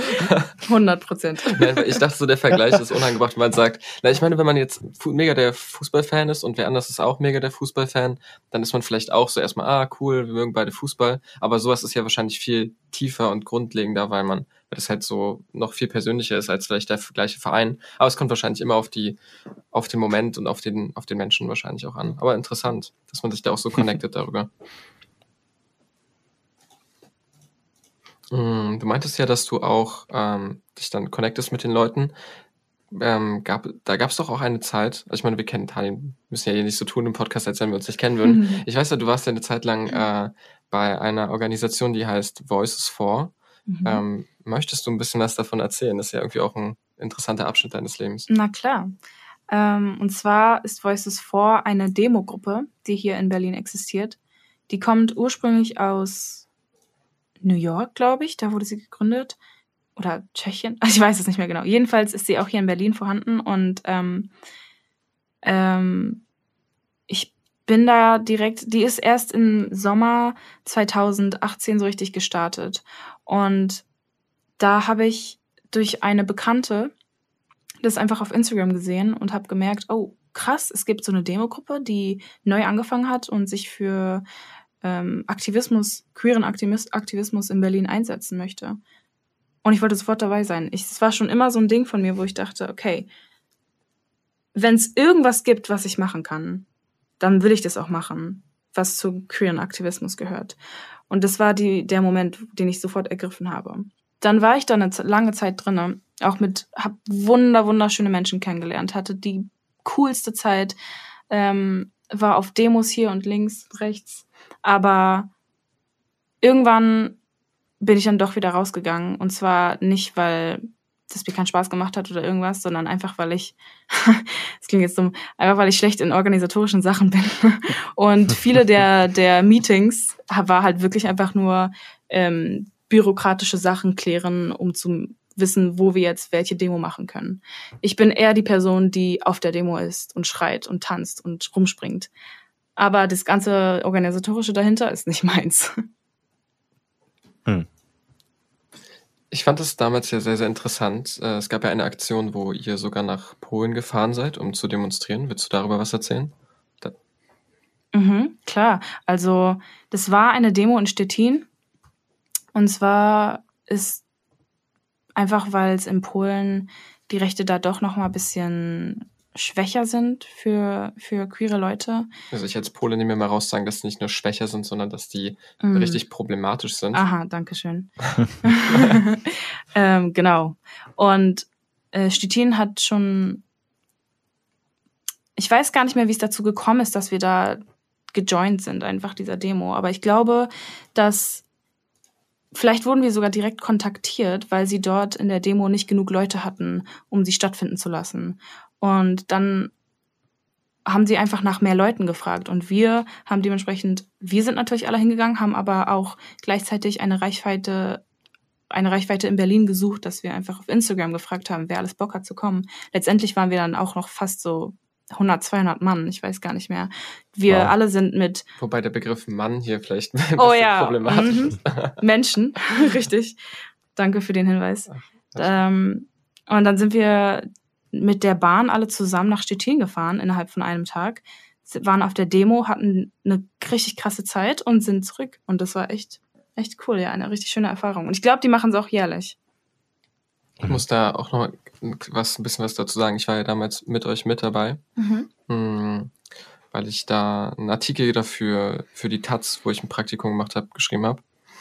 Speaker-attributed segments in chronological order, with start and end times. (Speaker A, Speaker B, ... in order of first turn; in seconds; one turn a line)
Speaker A: 0.1-0.5
Speaker B: 0.6-1.7
Speaker A: 1.5-19.2
Speaker A: 19.7-24.5
Speaker A: 28.3-32.1
Speaker A: 32.9-43.3
Speaker B: 38.2-38.6
Speaker B: 43.7-44.0
Speaker A: 43.8-48.3
Speaker B: 48.3-48.9
Speaker B: 49.5-54.2
Speaker B: 54.7-56.5
Speaker B: 57.4-59.4
Speaker B: 60.0-64.3
Speaker B: 65.4-66.2
Speaker B: 67.1-73.8
Speaker B: 74.6-76.9
Speaker B: 77.8-84.2
Speaker B: 84.8-88.8
Speaker B: 89.6-93.1
Speaker B: 94.5-96.6
Speaker B: 97.2-100.5
Speaker B: 101.1-110.8
Speaker B: 111.3-115.3
Speaker B: 116.4-117.2
Speaker B: 117.8-142.1
Speaker B: 142.8-145.9
Speaker A: 149.3-156.9
Speaker B: 157.9-161.5
Speaker B: 162.5-164.0
Speaker B: 165.2-172.1
Speaker A: 172.3-177.0
Speaker B: 175.6-176.0
Speaker B: 176.9-183.4
Speaker B: 185.3-191.4
Speaker B: 192.5-199.7
Speaker B: 200.8-208.0
Speaker B: 208.7-218.4
Speaker A: 218.6-222.0
Speaker B: 220.4-223.4
Speaker B: 223.9-239.3
Speaker A: 224.9-225.6
Speaker A: 240.6-244.8
Speaker B: 245.0-245.3
Speaker A: 245.5-246.1
Speaker A: 246.7-251.2